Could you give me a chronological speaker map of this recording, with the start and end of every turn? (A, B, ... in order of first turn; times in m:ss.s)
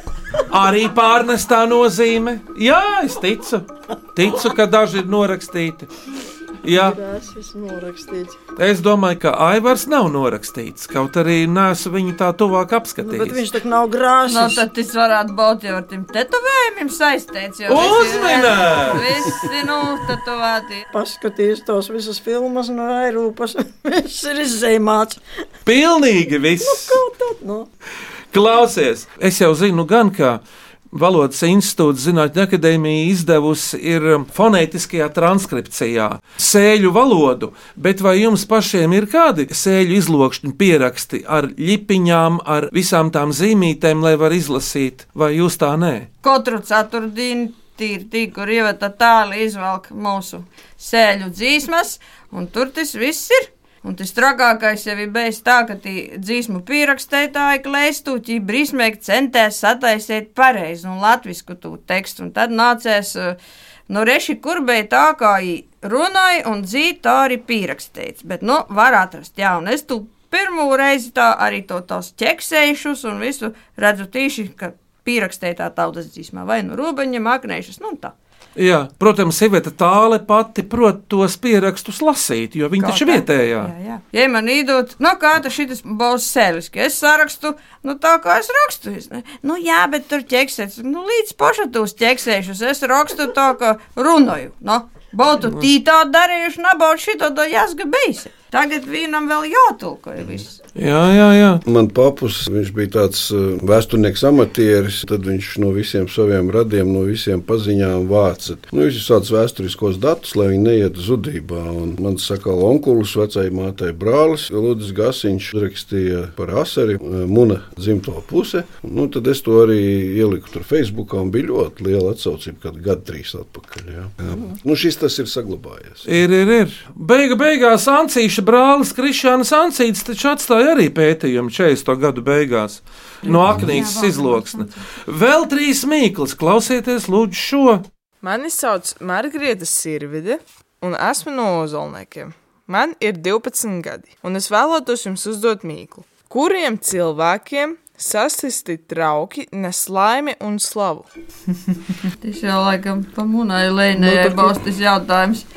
0:00.5-0:05.9 A
0:06.6-0:07.0 A
0:06.7-0:08.4 B
0:08.6-0:13.5 A
0:13.0-0:14.6 B
0:14.3-0:20.8 C
0:17.7-0:19.0 A
0:20.9-0:25.2 B
0:25.6-0:27.0 A
0:26.6-0:27.7 B
0:28.3-0:30.4 A
0:30.9-0:46.1 A
0:46.2-1:03.4 C
1:03.9-1:18.1 C
1:18.6-1:23.7 A
1:22.8-1:40.6 C
1:40.8-1:41.6 A
1:41.6-2:06.0 D
2:06.0-2:17.8 A
2:13.2-2:14.8 C
2:18.2-2:31.1 E
2:32.2-2:35.4 C
2:33.9-2:34.6 B